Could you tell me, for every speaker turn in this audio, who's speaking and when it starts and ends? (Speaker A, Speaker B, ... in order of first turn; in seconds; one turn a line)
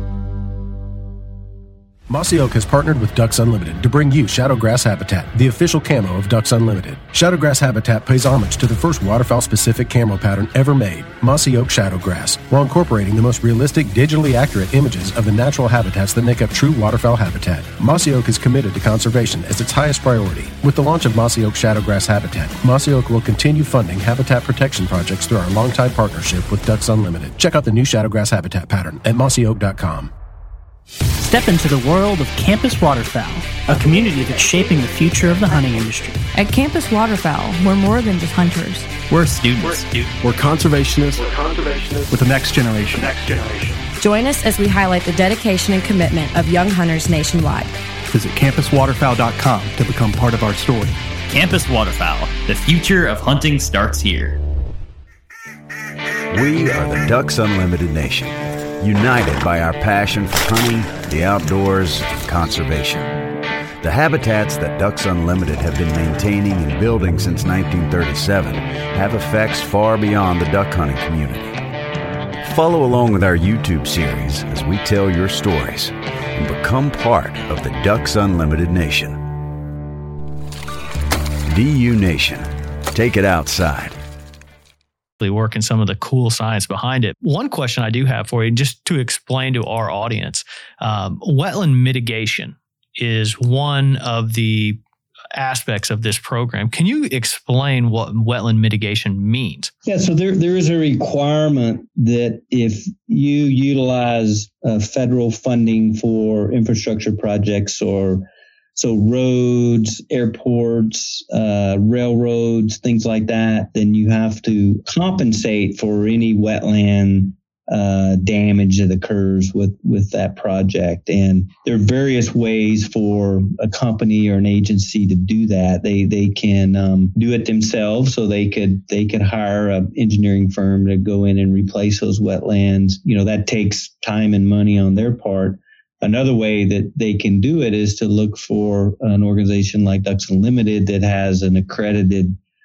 Speaker A: 2.1-30.1
Speaker B: 31.2-36.2
Speaker C: 36.3-38.9
Speaker D: 39.1-40.1
Speaker E: 40.2-43.8
Speaker C: 44.0-47.7
Speaker E: 48.1-51.0
Speaker D: 51.3-54.4
Speaker F: 56.3-63.1
Speaker F: 63.8-71.6
Speaker F: 72.4-79.2
Speaker F: 81.5-84.0
Speaker G: 85.2-94.8
Speaker G: 95.3-99.7
Speaker H: 99.8-108.2
Speaker H: 108.8-142.3